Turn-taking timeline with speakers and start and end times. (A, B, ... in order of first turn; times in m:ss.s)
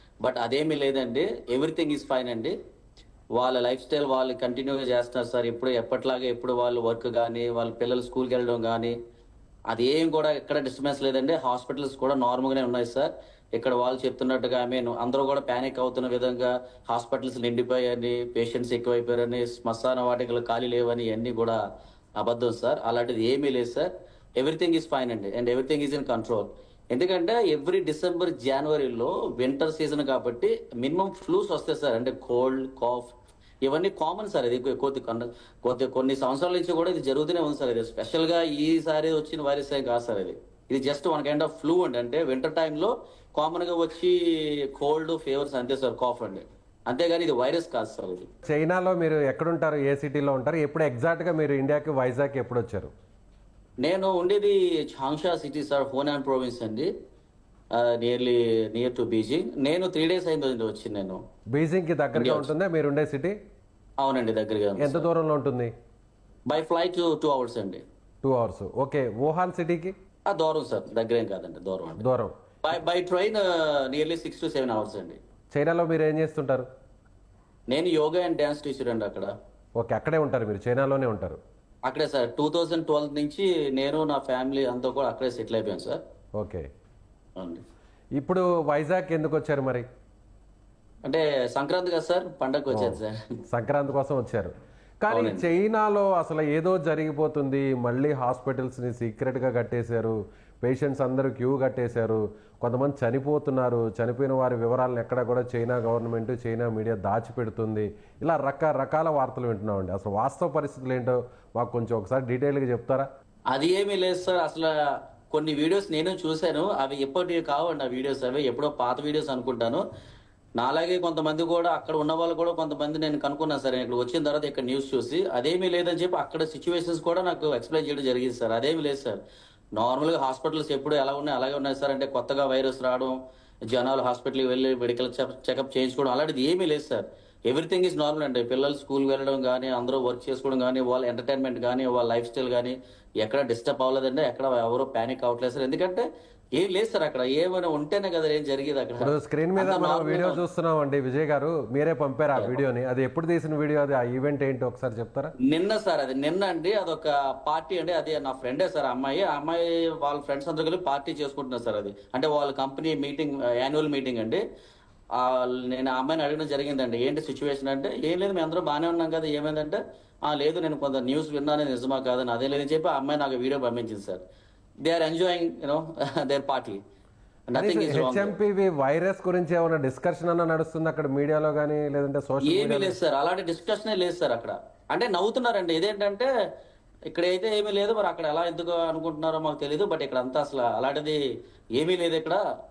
0:00.2-0:02.5 A
0:03.4-0:08.9 A
0:09.7-0:21.6 A
0:22.2-0:33.1 A
0:33.6-0:48.3 A
0:48.5-0:52.9 B
0:53.8-0:56.9 A
0:57.7-1:01.2 A
1:01.5-1:03.4 B
1:02.1-1:02.5 A
1:04.0-1:05.0 A
1:04.8-1:05.7 B
1:06.5-1:07.8 A
1:08.2-1:09.9 B
1:10.3-1:12.0 A
1:12.0-1:12.3 B
1:12.6-1:15.2 A
1:15.5-1:16.7 B
1:17.7-1:19.3 A
1:19.8-1:21.4 B
1:21.8-1:26.0 A
1:26.4-1:26.7 B
1:27.4-1:27.6 A
1:28.2-1:29.8 B
1:31.0-1:33.2 A
1:32.7-1:53.1 B
1:35.1-1:35.4 A
1:53.5-1:54.7 A
1:55.3-1:59.8 A
2:00.6-2:09.2 A
2:09.8-2:13.2 A
2:13.7-2:26.0 A
2:26.6-2:30.4 A
2:29.0-2:35.3 B
2:35.4-2:44.4 A
2:45.2-2:54.2 A
2:54.8-2:56.8 A
2:57.5-2:58.4 A
2:57.5-3:03.0 B
3:02.4-3:06.3 A
3:07.1-3:11.2 A
3:11.8-3:12.4 A